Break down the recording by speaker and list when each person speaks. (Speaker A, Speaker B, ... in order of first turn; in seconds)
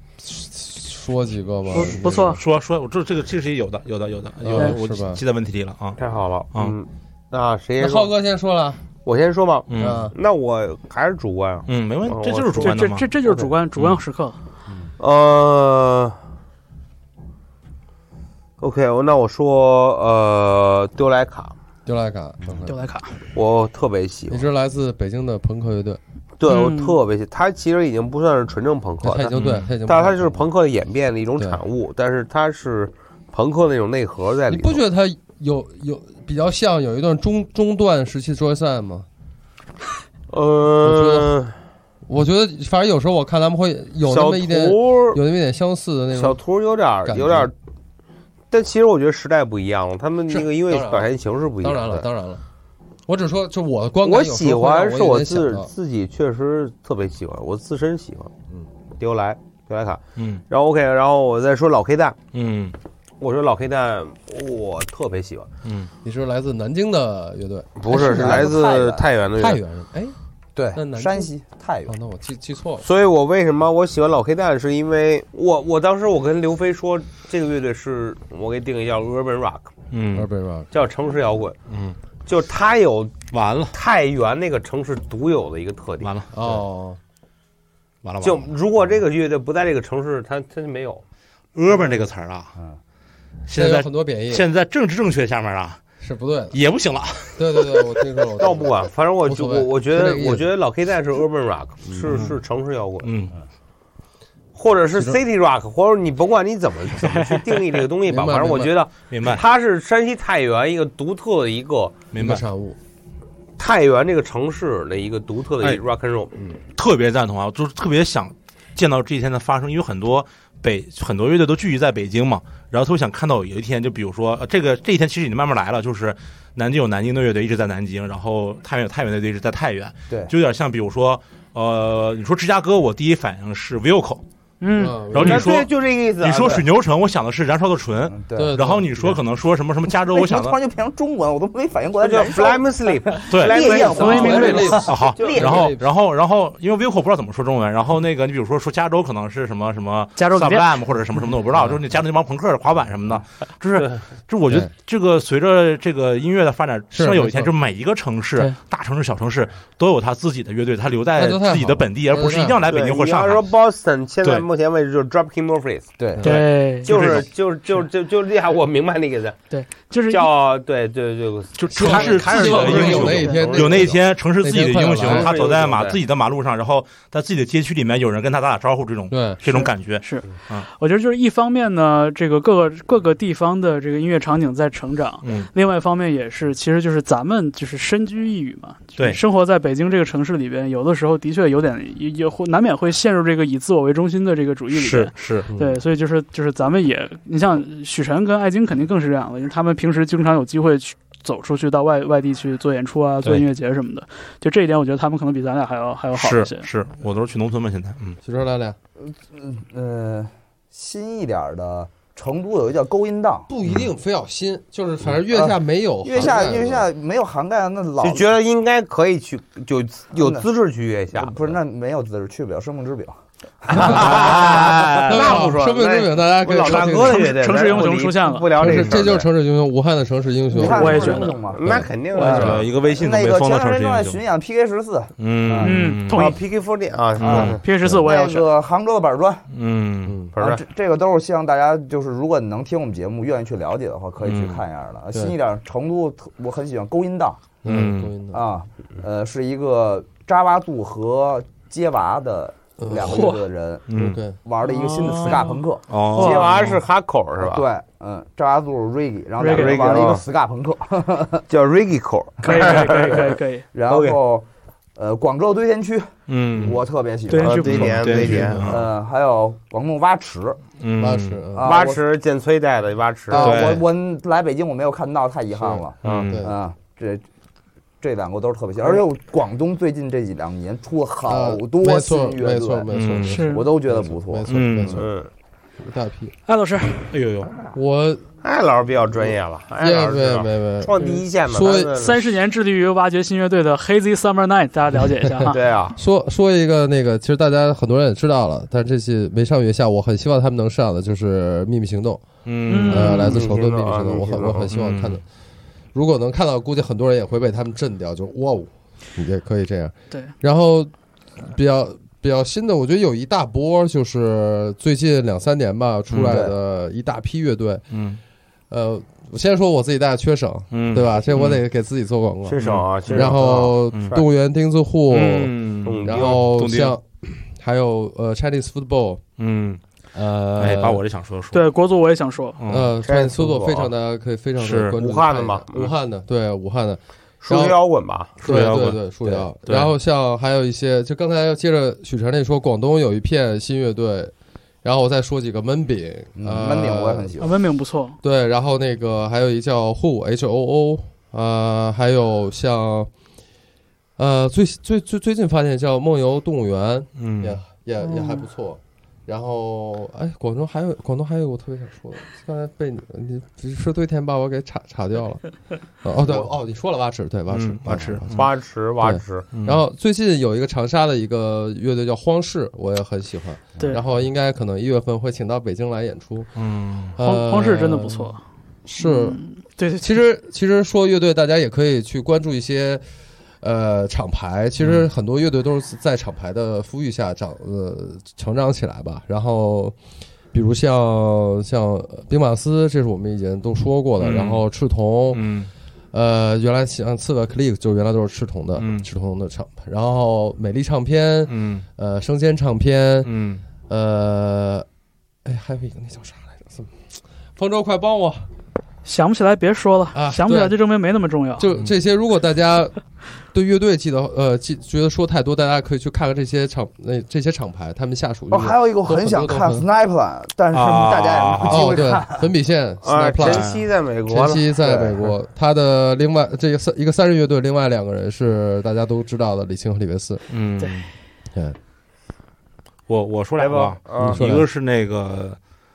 Speaker A: 0.2-2.4, 4.4-5.2, 7.8-8.8, 9.8-10.1, 21.9-22.8, 24.3-26.0, 29.0-30.5, 34.5-39.1, 40.8-41.4, 42.0-46.4, 47.0-47.5, 50.3-52.4, 53.0-55.7, 66.0-68.6, 69.3-70.2, 70.7-71.3, 71.8-72.8, 80.1-80.7, 86.3-87.0, 93.5-94.5, 96.0-96.5, 97.3-100.5, 108.0-108.8, 112.2-112.8, 134.8-135.5, 138.3-139.1, 144.0-145.8, 156.9-157.5, 161.2-162.6, 171.7-175.3, 179.1-179.4, 195.5-195.8, 208.2-208.8, 213.5-216.9, 223.7-224.4, 225.1-227.3, 228.6-232.6, 240.1-240.3, 247.6-248.4, 252.8-253.4, 253.9-254.3, 271.0-271.7, 275.5-276.5, 281.3-285.1, 285.8-286.3, 287.7-288.2, 289.8-290.9, 291.5-292.0, 295.4-302.3, 302.8-305.2, 305.9-317.8, 318.7-329.2, 330.1-331.0, 332.7-337.8, 338.4-347.3, 348.2-353.1, 354.2-368.4, 369.0-376.5, 377.1-379.4, 380.0-383.1, 383.6-389.9, 390.5-395.4, 396.1-404.9, 405.4-407.0, 407.6-408.5, 410.1-410.8, 411.6-412.9, 413.5-419.9, 421.6-423.7, 424.3-430.4, 434.2-434.6
Speaker B: 1.7-2.4, 12.6-14.4, 22.6-23.2, 26.4-27.0, 107.1-107.7, 134.6-135.0, 143.6-144.7, 150.2-150.7, 166.2-166.9, 169.5-170.3, 172.4-173.4, 179.5-206.7, 226.9-228.4, 230.6-231.4, 235.6-236.4, 237.2-238.5, 253.0-253.4, 254.6-255.6, 256.1-256.6, 259.4-260.0, 262.4-263.6, 267.3-267.9, 283.3-283.6, 286.5-287.1, 291.0-291.2, 292.0-295.6, 302.7-303.4, 331.5-332.6, 347.4-348.2, 358.0-358.4, 377.2-378.4, 379.0-380.2, 409.0-411.6
Speaker C: 2.0-6.0, 9.7-10.1, 11.7-13.1, 29.3-29.7, 60.2-60.4, 62.3-62.8, 65.6-65.9, 79.9-80.3, 81.7-82.0, 83.3-83.7, 86.0-86.3, 88.0-88.5, 91.5-92.5, 93.5-95.8, 96.5-98.0, 102.1-102.3, 103.0-103.3, 109.1-109.4, 112.1-112.4, 116.7-134.2, 135.1-140.6, 143.3-143.7, 144.2-163.4, 166.2-167.3, 171.5-180.7, 185.2-185.5, 194.7-195.5, 206.1-208.2, 223.7-225.4, 228.7-229.0, 232.2-234.2, 235.2-236.3, 237.2-237.6, 239.5-240.3, 244.2-244.6, 247.7-248.2, 253.9-254.2, 255.9-256.8, 266.3-266.8, 267.4-268.9, 270.8-271.4, 273.3-273.8, 276.0-276.4, 282.9-283.4, 284.5-285.0, 287.1-287.7, 302.4-303.1, 304.7-305.2, 316.1-316.4, 317.9-318.2, 320.7-321.6, 322.6-323.3, 323.9-324.2, 325.1-326.9, 329.4-329.8, 330.6-331.6, 332.6-332.9, 334.6-334.9, 338.4-339.9, 357.1-357.6, 367.5-368.5, 369.5-369.8, 376.6-377.1, 394.2-394.6, 395.3-395.7, 398.8-399.1, 401.5-401.8, 403.2-403.6, 420.7-422.0, 423.4-423.8, 430.5-431.1, 433.1-435.6
Speaker D: 6.0-8.1, 9.0-13.5, 15.0-16.2, 18.6-21.5, 23.3-24.4, 26.4-29.3, 29.8-34.8, 40.3-41.5, 44.0-45.2, 46.1-47.5, 48.5-52.0, 54.0-58.3, 59.0-62.2, 63.2-65.5, 67.8-69.6, 72.8-79.7, 80.7-81.6, 82.2-83.2, 83.7-86.1, 88.2-91.0, 98.4-103.1, 104.5-112.0, 113.6-116.6, 135.1-136.7, 142.0-145.4, 162.7-165.9, 166.8-169.4, 170.1-173.9, 175.0-176.0, 218.0-221.4, 223.8-229.3, 230.8-232.6, 236.1-238.3, 240.3-240.6, 256.1-257.6, 259.5-260.2, 261.5-263.3, 263.9-264.2, 267.4-268.7, 271.6-273.6, 276.0-276.3, 284.9-285.3, 288.4-292.1, 295.5-296.0, 303.0-304.7, 322.5-324.2, 325.8-326.4, 333.0-333.9, 335.0-335.9, 337.4-339.4, 368.3-369.5, 423.0-425.3, 433.6-434.5
Speaker E: 67.9-69.0, 70.5-71.9, 138.1-138.7, 139.9-145.7, 166.0-166.2, 209.0-213.5, 215.3-218.3, 220.2-220.5, 221.1-223.1, 223.7-224.2, 230.5-235.9, 237.9-239.4, 240.3-247.4, 248.3-255.9, 257.4-261.4, 262.5-263.2, 263.7-270.6, 271.5-272.0, 273.3-277.2, 278.0-284.5, 316.2-316.5, 346.4-347.6, 418.5-422.4